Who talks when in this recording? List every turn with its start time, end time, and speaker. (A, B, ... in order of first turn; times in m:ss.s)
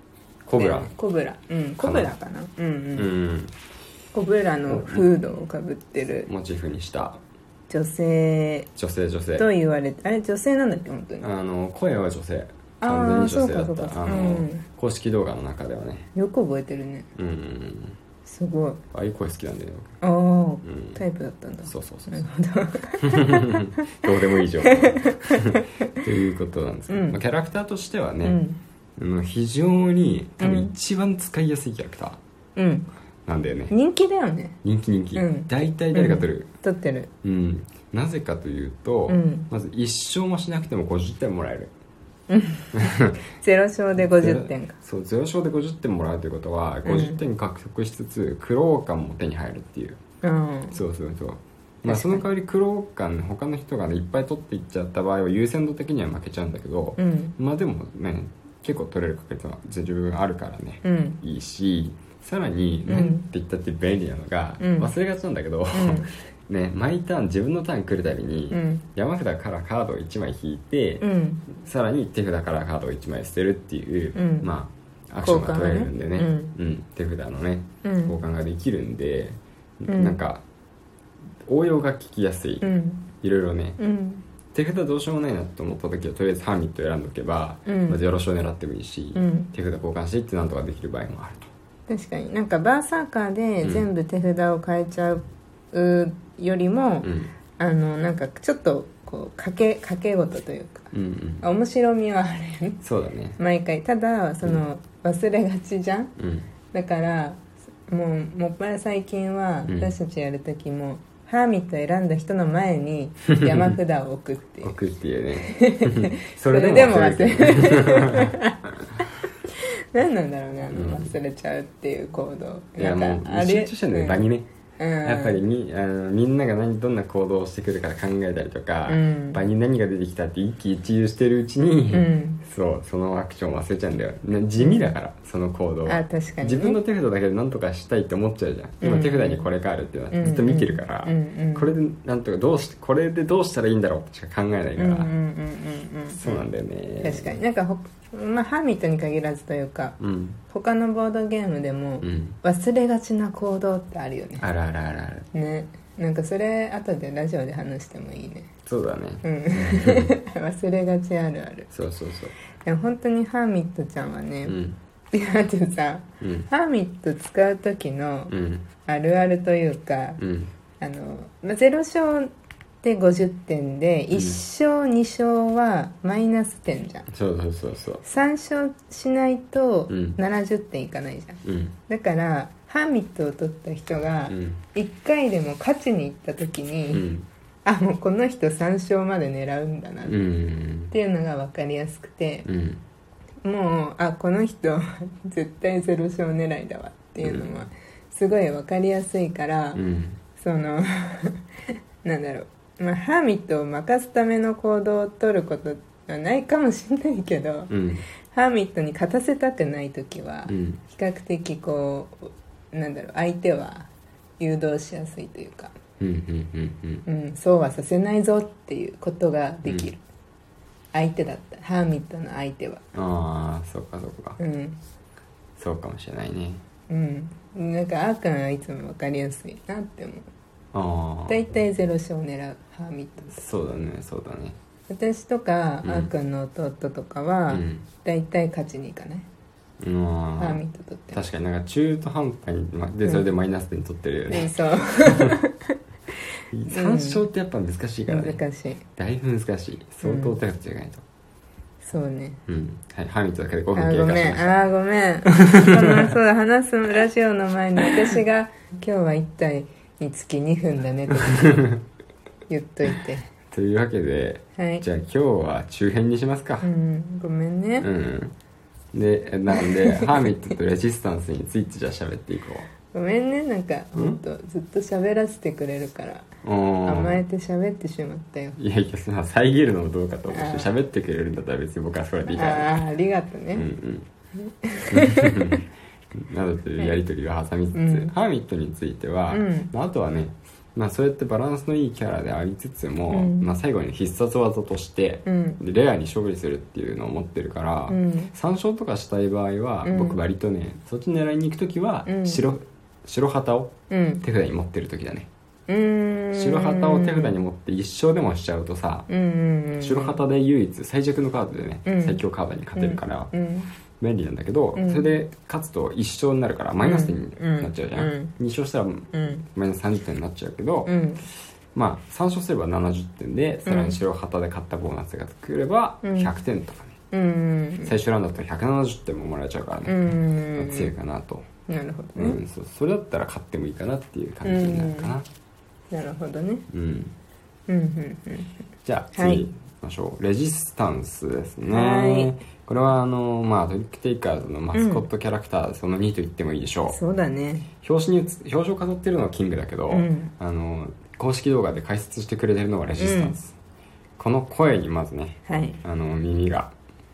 0:00.4-0:00.9 A
0:00.5-0:03.1 B
0:01.8-0:02.1 A
0:03.0-0:03.5 A
0:04.1-0:06.3 B
0:04.7-0:05.1 A
0:06.3-0:07.2 A
0:07.7-0:08.7 B
0:08.8-0:09.5 A
0:09.4-0:11.2 B
0:11.2-0:16.1 A
0:12.8-0:14.6 B
0:16.1-0:17.1 B
0:17.2-0:18.0 A
0:18.2-0:18.8 B
0:18.9-0:19.9 A
0:20.0-0:24.0 B
0:20.6-0:21.0 A
0:21.6-0:22.2 A
0:23.1-0:28.4 A
0:24.6-0:25.9 B
0:26.9-0:27.2 B
0:28.2-0:28.6 B
0:29.0-0:32.2 A
0:30.4-0:30.7 B
0:32.6-0:32.9 B
0:33.2-0:33.7 A
0:33.7-0:34.6 B
0:34.6-0:36.5 A
0:35.1-0:37.1 B
0:37.2-0:41.7 A
0:39.1-0:39.5 B
0:42.3-0:44.8 B
0:42.8-0:43.2 A
0:44.0-0:50.0 A
0:46.8-0:47.2 B
0:50.2-0:50.8 B
0:50.7-1:20.4 A
0:51.8-0:52.2 B
0:57.0-0:57.4 B
1:00.8-1:01.2 B
1:02.9-1:03.3 B
1:04.6-1:04.9 B
1:05.7-1:06.1 B
1:08.5-1:08.8 B
1:11.0-1:11.4 B
1:14.1-1:14.5 B
1:15.2-1:16.5 B
1:17.8-1:18.2 B
1:19.9-1:20.2 B
1:21.5-1:22.7 A
1:22.6-1:23.1 B
1:23.2-1:23.8 A
1:23.8-1:24.2 B
1:24.5-1:31.5 A
1:27.6-1:28.0 B
1:29.1-1:29.5 B
1:31.9-1:40.9 B
1:33.6-1:33.9 A
1:37.0-1:37.3 A
1:40.9-1:41.4 A
1:41.4-1:42.8 B
1:42.8-1:43.4 A
1:43.4-1:46.1 B
1:46.2-1:46.5 A
1:46.7-1:54.8 B
1:53.3-1:53.7 A
1:54.6-1:58.4 A
1:55.4-1:58.6 B
1:59.5-2:04.2 B
2:00.7-2:01.1 A
2:02.8-2:04.5 A
2:04.8-2:05.4 B
2:05.0-2:25.1 A
2:08.9-2:09.4 B
2:11.9-2:12.4 B
2:14.6-2:14.9 B
2:15.8-2:16.8 B
2:18.8-2:19.5 B
2:20.1-2:21.7 B
2:24.8-2:26.4 B
2:26.1-2:27.4 A
2:27.0-2:30.0 B
2:30.0-2:30.4 A
2:30.5-2:34.4 B
2:32.0-2:32.4 A
2:34.4-2:35.3 A
2:35.3-2:38.5 B
2:38.6-2:40.1 A
2:39.2-2:41.7 B
2:41.7-2:42.3 A
2:42.6-2:44.6 B
2:44.4-2:44.8 A
2:45.1-2:48.3 B
2:46.2-2:46.5 A
2:48.3-2:48.7 A
2:48.8-2:50.2 B
2:50.2-2:50.5 A
2:50.8-2:52.3 B
2:52.8-2:57.1 B
2:54.1-2:54.4 A
2:57.1-2:58.0 A
2:58.0-3:07.0 B
2:59.9-3:00.2 A
3:01.4-3:01.8 A
3:04.3-3:04.6 A
3:06.9-3:07.3 A
3:07.6-3:10.2 B
3:10.0-3:10.9 A
3:10.9-3:12.5 B
3:12.4-3:12.8 A
3:13.4-3:19.8 B
3:17.2-3:17.5 A
3:19.7-3:20.2 A
3:20.4-3:21.4 B
3:22.0-3:27.7 B
3:27.7-3:28.0 A
3:28.3-3:33.9 B
3:30.5-3:30.8 A
3:34.4-3:35.7 B
3:36.0-3:37.0 A
3:37.0-3:40.0 B
3:39.6-3:39.9 A
3:40.9-3:42.8 B
3:42.9-3:44.4 A
3:44.4-3:44.8 B
3:45.6-3:46.6 A
3:46.9-3:50.3 B
3:50.7-3:51.4 A
3:51.3-3:53.3 B
3:53.3-3:54.6 A
3:54.9-3:59.3 B
3:55.8-3:56.1 A
3:57.5-3:57.9 A
3:59.8-4:04.5 A
4:00.4-4:01.2 B
4:04.3-4:05.8 B
4:05.0-4:05.3 A
4:06.5-4:08.4 A
4:06.7-4:07.2 B
4:08.1-4:08.8 B
4:09.0-4:11.0 A
4:10.0-4:10.4 B
4:11.8-4:12.4 B
4:12.5-4:14.5 A
4:13.7-4:21.7 B
4:15.5-4:16.0 A
4:21.3-4:21.8 A
4:22.5-4:23.3 B
4:23.5-4:26.7 A
4:24.6-4:24.8 B
4:26.6-4:27.9 B
4:27.8-4:28.3 A
4:28.9-4:32.7 A
4:29.5-4:30.4 B
4:32.9-4:36.3 B
4:33.9-4:34.2 A
4:36.4-4:37.2 A
4:36.8-4:38.6 B
4:38.6-4:42.8 A
4:40.3-4:40.7 B
4:42.2-4:43.7 B
4:43.5-4:44.1 A
4:44.4-4:45.6 B
4:44.9-5:05.3 A
4:47.7-4:48.1 B
4:49.3-4:49.7 B
4:53.1-4:53.5 B
4:55.2-4:55.6 B
4:57.9-4:58.3 B
4:59.8-5:00.2 B
5:02.0-5:02.4 B
5:03.9-5:04.2 B
5:05.7-5:07.4 B
5:06.3-5:09.1 A
5:09.1-5:10.2 B
5:09.8-5:13.3 A
5:11.8-5:12.2 B
5:12.8-5:13.7 B
5:14.0-5:20.9 A
5:14.8-5:15.1 B
5:16.8-5:18.3 B
5:19.1-5:19.4 B
5:20.9-5:21.2 B
5:21.7-5:27.0 A
5:23.6-5:24.0 B
5:26.0-5:26.3 B
5:27.1-5:27.9 B
5:27.8-5:31.4 A
5:29.8-5:30.9 B
5:31.7-5:32.4 B
5:32.2-5:35.3 A
5:34.4-5:35.2 B
5:35.9-5:36.6 B
5:36.7-5:37.1 A
5:37.7-5:38.5 B
5:38.8-5:47.0 A
5:39.1-5:39.4 B
5:41.7-5:42.3 B
5:44.7-5:45.1 B
5:46.9-5:47.7 B
5:47.8-5:53.5 A
5:49.9-5:50.3 B
5:53.0-5:53.4 B
5:54.2-5:56.7 A
5:55.5-5:55.8 B